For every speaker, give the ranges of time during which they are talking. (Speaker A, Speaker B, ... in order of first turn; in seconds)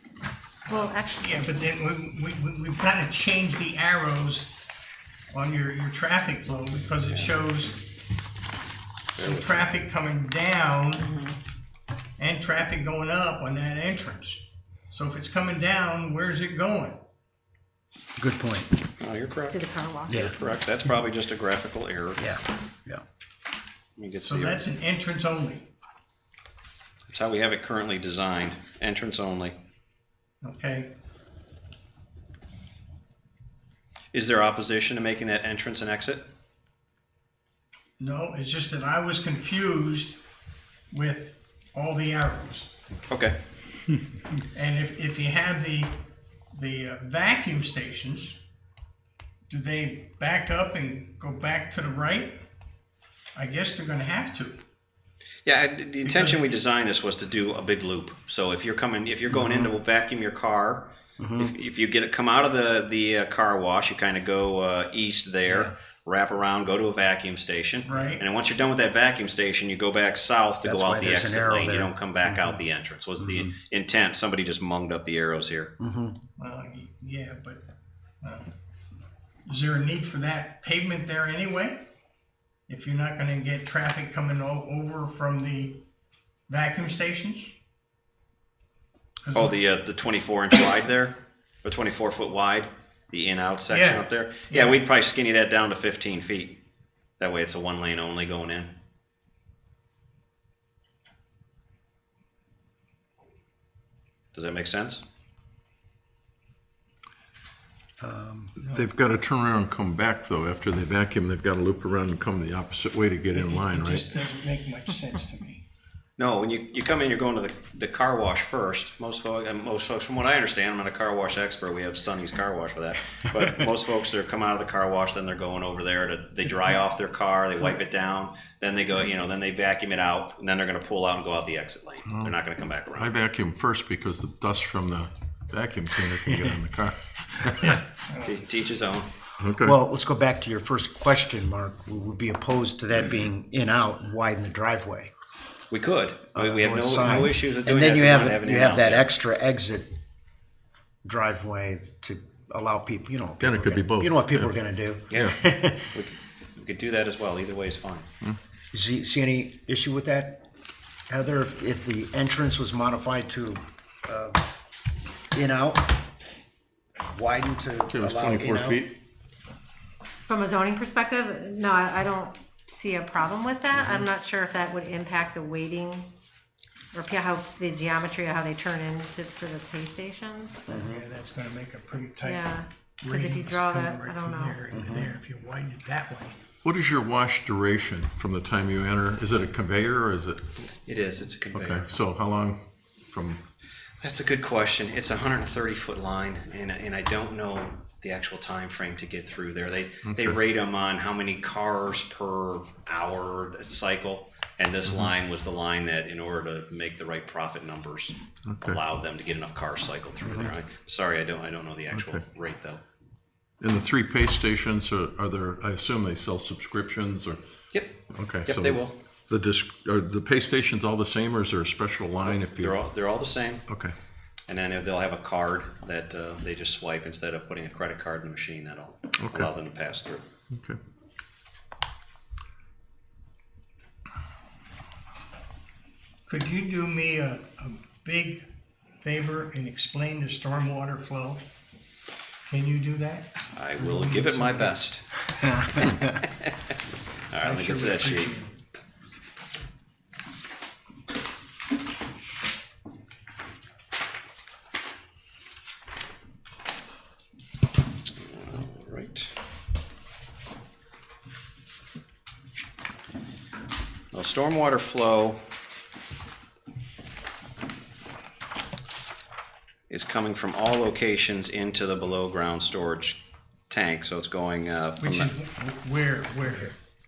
Speaker A: 0.7-4.5, 5.3-7.8, 9.2-11.1, 12.2-17.0, 24.2-25.7, 30.4-30.9, 38.0-40.2, 40.9-42.7, 44.5-48.4, 49.5-52.4, 53.4-54.6, 56.0-56.5, 67.8-68.2, 76.4-77.6, 78.2-78.5, 79.5-81.9, 82.7-85.8, 86.5-87.5, 89.2-89.5, 93.7-94.8, 108.6-108.9, 113.3-115.6, 137.6-138.4, 180.7-186.4, 236.3-238.5, 239.0-241.4, 242.4-244.8, 247.4-248.6, 275.0-276.8
Speaker B: 0.7-1.4, 11.0-11.4, 19.5-20.3, 170.3-176.1, 176.9-180.7, 182.2-185.1
Speaker C: 9.2-9.7, 19.0-22.2, 24.0-24.6, 27.1-29.6, 34.1-36.3, 43.1-43.4, 55.5-75.7, 89.3-96.6, 97.2-98.8, 104.3-105.0, 116.2-133.2, 138.2-139.1, 145.7-149.1, 155.9-158.1, 190.8-191.8, 194.0-212.8, 217.7-219.0, 222.2-223.7, 224.5-230.2, 243.5-246.5, 247.3-248.3, 258.2-259.3, 264.1-265.4, 269.9-275.3
Speaker D: 18.2-18.7, 20.1-20.3, 22.2-23.0, 59.3-59.7, 61.2-61.5, 65.5-65.7, 70.6-71.9, 73.2-73.5, 75.8-76.1, 108.0-108.6, 139.6-145.1, 146.3-149.9, 151.0-155.9, 158.7-160.4, 161.1-164.4, 165.3-166.0, 167.1-168.8, 180.7-181.0, 184.7-185.1, 210.2-210.5
Speaker E: 108.6-114.1, 132.1-132.3, 132.9-137.6, 139.4-139.8, 153.4-154.6, 167.9-168.9, 186.6-190.7, 191.5-193.4, 200.1-200.3, 204.9-205.1, 208.5-208.8, 211.9-212.2, 213.6-217.4, 218.1-222.8, 223.7-223.9, 229.2-229.5, 230.5-230.8